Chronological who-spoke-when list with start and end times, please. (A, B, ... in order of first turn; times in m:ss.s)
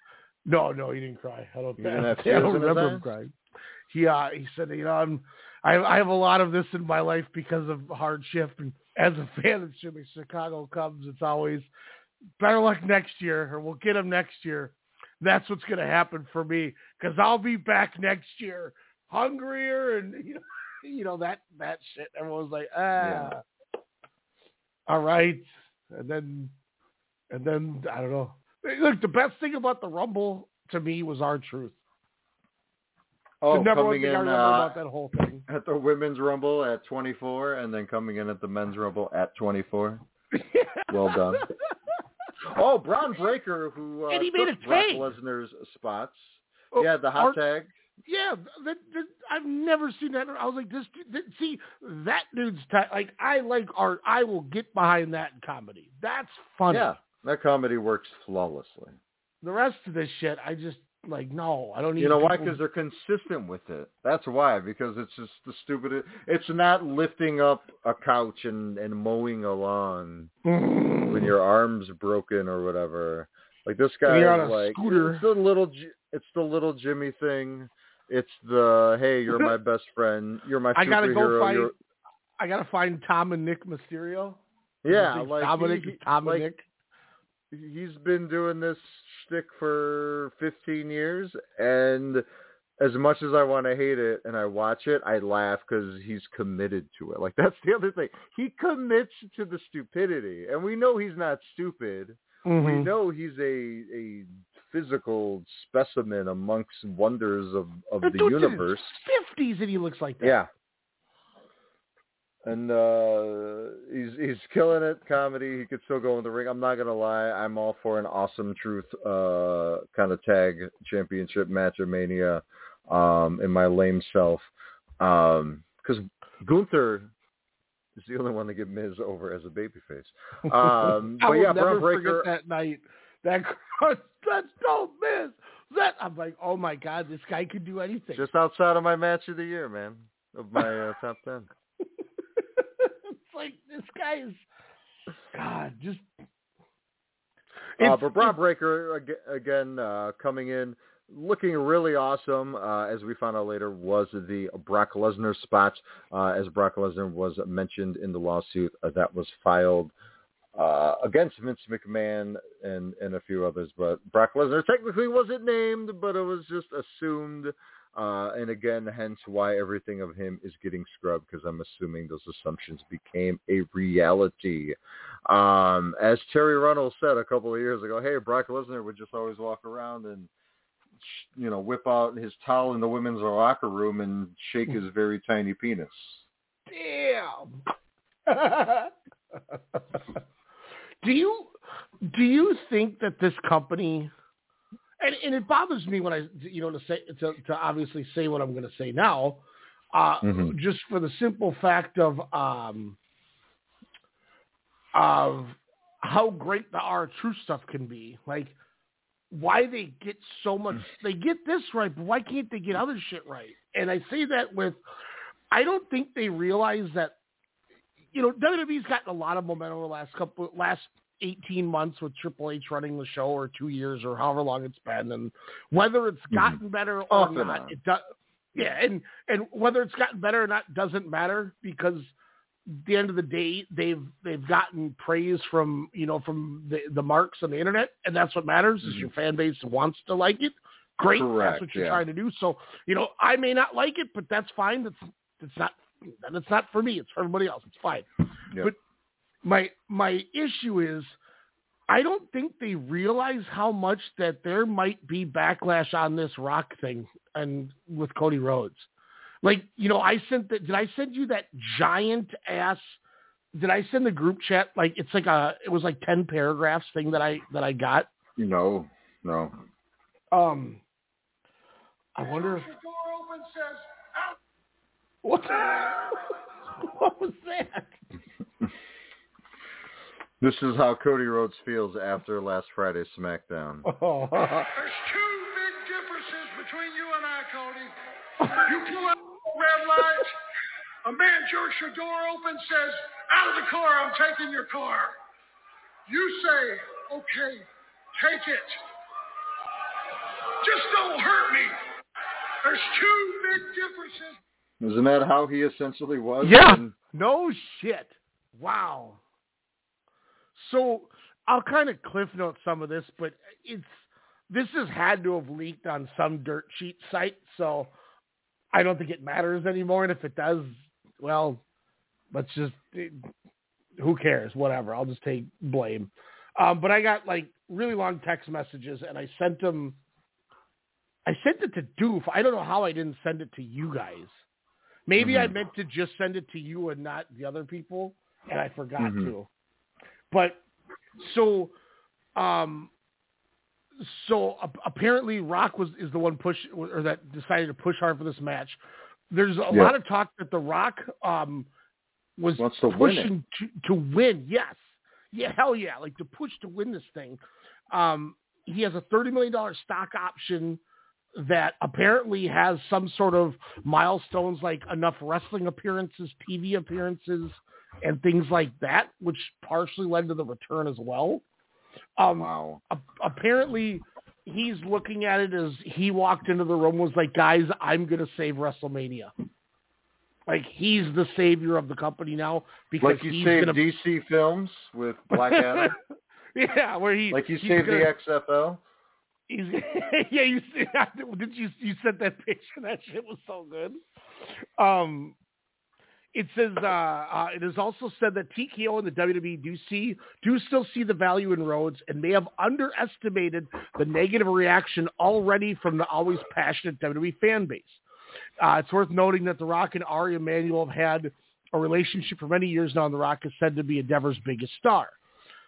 0:00.5-0:03.3 A
0:01.8-0:03.1 B
0:03.9-0:11.7 A
0:12.4-0:23.4 A
0:23.0-0:23.4 B
0:24.9-0:26.5 A
0:27.3-0:31.8 A
0:33.4-0:34.8 B
0:33.5-0:35.4 A
0:35.5-0:40.0 B
0:40.4-0:41.3 A
0:40.9-0:41.4 B
0:42.4-0:47.7 B
0:44.1-0:45.1 A
0:46.7-0:47.4 A
0:48.1-0:57.0 A
0:56.7-0:59.0 B
0:59.4-1:02.6 A
1:02.0-1:10.3 B
1:10.4-1:11.3 A
1:11.1-1:21.7 B
1:14.1-1:15.2 A
1:20.7-1:21.7 A
1:22.4-1:26.6 A
1:24.8-1:26.4 B
1:27.5-1:32.2 B
1:32.8-1:48.9 B
1:42.4-1:42.9 A
1:48.0-1:50.4 A
1:50.2-1:50.5 B
1:52.4-2:07.1 B
2:08.0-2:12.3 B
2:11.2-2:18.2 A
2:18.1-2:21.5 B
2:22.6-2:24.4 A
2:25.3-2:26.0 A
2:27.8-2:28.3 A
2:27.8-2:39.9 B
2:40.6-3:00.3 B
3:01.0-3:06.2 B
3:06.7-3:07.6 A
3:08.3-3:08.9 A
3:09.8-3:10.0 A
3:11.0-3:11.6 A
3:12.1-3:14.1 A
3:15.0-3:19.4 A
3:19.9-3:23.0 A
3:20.2-3:20.6 B
3:24.9-3:28.6 A
3:29.3-3:34.8 A
3:35.5-3:37.2 A
3:38.1-3:52.1 A
3:46.3-3:47.8 B
3:52.7-4:08.1 A
3:58.8-3:59.1 B
4:01.1-4:02.0 B
4:09.4-4:11.1 A
4:11.9-4:18.9 A
4:19.4-4:23.0 A
4:23.6-4:28.1 A
4:28.4-4:29.5 B
4:30.3-4:30.8 A
4:32.2-4:32.7 A
4:32.2-4:33.9 C
4:35.2-4:38.0 A
4:40.4-4:43.9 B
4:43.9-4:44.7 A
4:44.7-4:47.9 C
4:48.4-4:50.4 C
4:51.0-4:55.1 C
4:56.1-4:58.8 C
5:00.6-5:01.8 C
5:02.6-5:04.4 C
5:04.8-5:06.9 B
5:06.4-5:09.2 A
5:10.6-5:17.9 A
5:18.7-5:21.6 A
5:22.3-5:23.2 A
5:24.0-5:30.0 A
5:31.3-5:34.4 A
5:35.1-5:39.5 A
5:35.2-5:35.5 B
5:39.0-5:39.3 B
5:40.3-5:40.6 A
5:41.2-5:41.7 A
5:42.4-5:42.9 A
5:44.0-5:48.8 A
5:49.3-5:51.7 A
5:49.7-5:50.0 B
5:52.4-5:57.4 A
5:52.6-5:53.3 B
5:57.9-6:00.8 A
6:01.4-6:11.4 A
6:12.2-6:19.3 A
6:12.3-6:12.8 B
6:20.5-6:23.8 A
6:23.0-6:26.0 B
6:25.3-6:25.9 A
6:26.6-6:28.1 A
6:27.3-6:28.8 B
6:29.5-6:34.0 A
6:34.8-6:35.4 A
6:36.3-6:48.0 A
6:48.6-6:55.2 A